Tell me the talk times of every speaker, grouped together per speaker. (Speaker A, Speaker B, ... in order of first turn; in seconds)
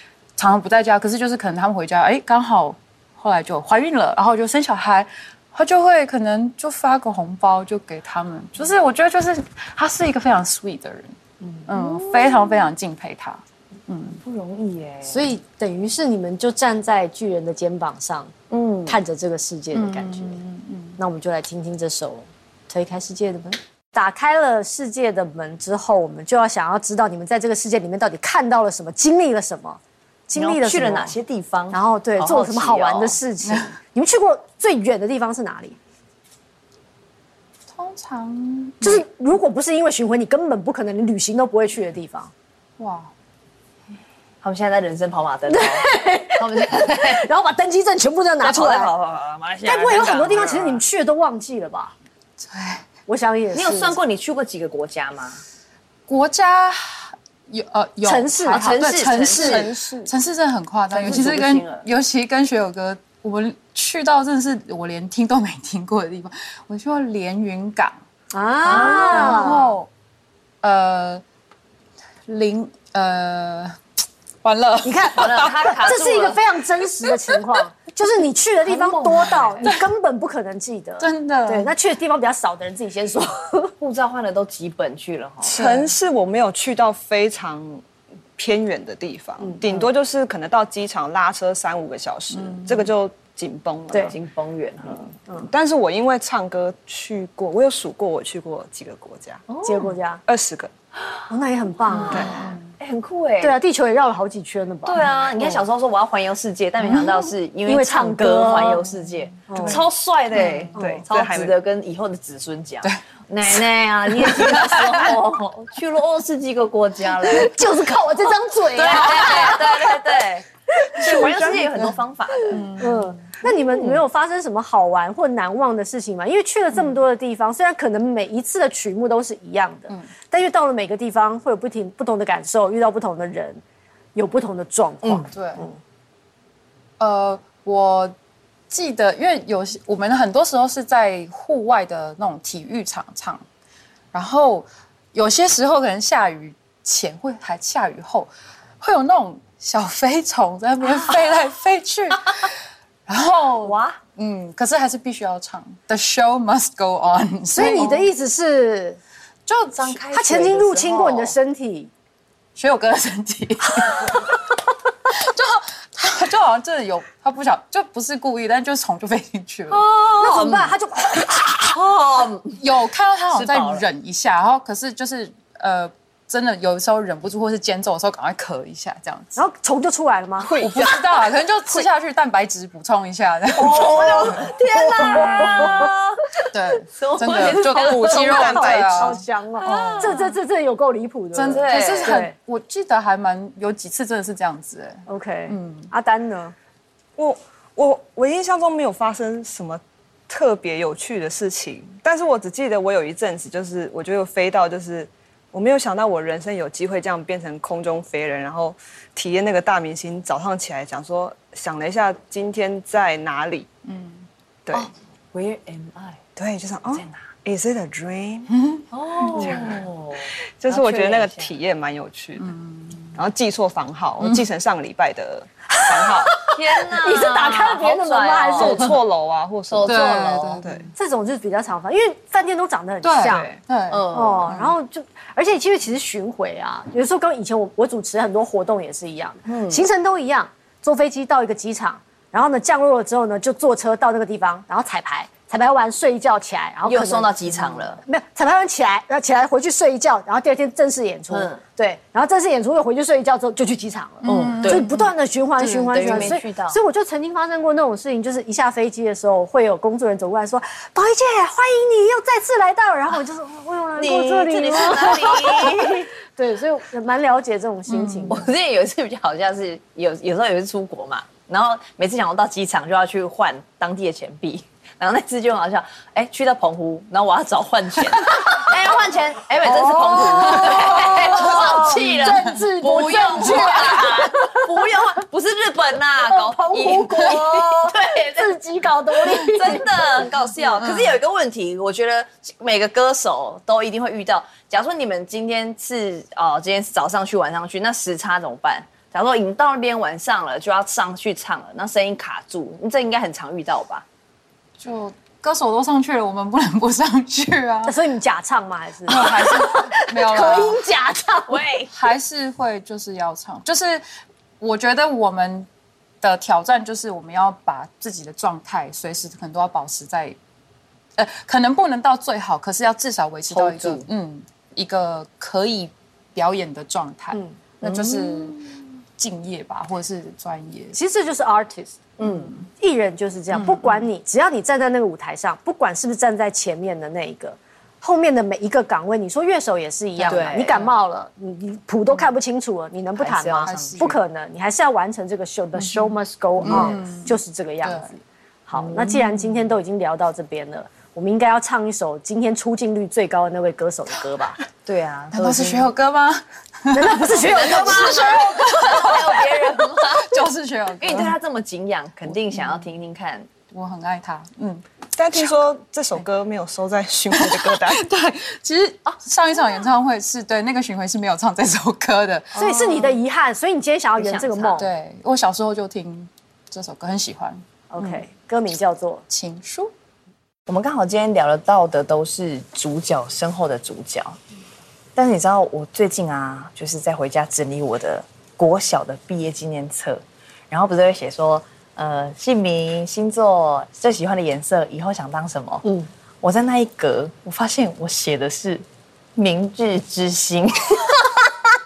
Speaker A: 0.4-11.2, 11.7-14.2, 19.7-21.0, 33.5-33.7, 37.7-39.0, 42.8-43.1, 52.4-52.9, 56.1-68.0, 68.6-69.9, 70.6-71.2, 72.3-73.8, 74.4-75.5, 81.0-81.8, 85.6-85.9, 92.3-92.9, 101.9-102.7, 106.8-107.3, 110.3-110.8, 112.8-115.2, 118.8-119.6, 122.5-123.4, 135.3-135.7, 137.0-138.1, 138.7-143.4, 144.1-152.6, 153.1-158.1, 159.5-160.5, 162.6-164.4, 165.1-169.8, 172.6-179.4, 180.6-184.0, 185.0-185.9, 186.5-190.4, 191.3-195.9, 213.8-214.3, 218.6-219.6, 222.4-223.2, 229.9-230.9, 233.0-234.7, 254.2-256.4, 267.9-268.4, 280.5-282.6, 283.2-284.0, 290.6-291.2, 304.8-308.0, 309.1-310.8, 311.9-314.0, 314.6-315.7, 316.2-320.4, 321.2-328.6, 329.2-331.0, 332.2-332.6, 333.5-334.1, 340.2-340.9, 343.6-344.1, 345.8-348.1, 349.1-349.6, 355.3-361.4, 362.3-362.9, 363.7-365.6, 367.3-373.2, 374.2-377.6, 379.3-379.9
Speaker B: 11.7-12.7, 14.2-15.3, 18.5-19.0, 30.3-33.2, 44.4-47.3, 48.4-50.8, 53.5-55.4, 58.5-59.7, 60.9-61.9, 68.7-69.7, 75.2-76.4, 78.7-79.7, 83.8-85.7, 94.0-95.1, 99.5-99.9, 101.9-103.6, 104.8-117.6, 118.3-122.7, 123.5-124.0, 153.6-154.0, 159.8-161.3, 169.7-172.6, 173.3-173.9, 180.4-181.1, 183.5-188.6, 189.6-190.3, 191.5-192.3, 214.7-216.2, 216.9-217.2, 218.9-221.5, 226.5-228.9, 229.7-230.7, 233.9-234.6, 239.4-239.9, 246.8-248.0, 251.3-251.6, 254.2-254.9, 255.9-256.8, 264.0-266.1, 268.3-288.6, 289.4-304.1, 311.5-311.9, 323.5-324.1, 327.8-328.8, 332.2-332.6, 340.3-340.9, 343.2-344.2, 346.6-347.0, 348.8-349.2, 354.9-355.9, 357.2-360.4, 361.0-363.5, 380.7-384.4, 385.2-395.9, 396.4-398.9, 399.4-401.7
Speaker C: 15.1-18.3, 18.9-20.4, 21.0-31.2, 31.7-35.8, 38.8-42.3, 45.5-48.9, 49.6-51.9, 53.1-54.0, 58.0-60.1, 68.3-69.7, 74.8-83.7, 99.6-100.2, 101.3-102.5, 103.4-105.0, 107.7-108.9, 109.5-109.8, 110.8-111.1, 117.3-120.0, 120.9-121.3, 122.8-133.6, 134.2-135.8, 157.5-159.0, 160.1-161.9, 170.2-171.4, 179.4-180.5, 185.0-185.8, 188.3-192.3, 195.1-196.5, 225.8-229.0, 230.9-233.5, 234.1-268.5, 279.6-284.8, 286.3-290.3, 307.9-311.6, 330.9-332.0, 332.7-354.6, 356.9-358.4, 372.6-374.9, 377.9-379.2
Speaker D: 85.4-87.8, 88.4-94.1, 95.4-99.5, 100.3-100.7, 110.8-111.6, 121.0-121.7, 187.6-189.2, 197.2-213.7, 216.4-218.5, 219.4-219.9, 220.6-222.5, 223.2-226.3, 228.6-230.9, 365.1-368.0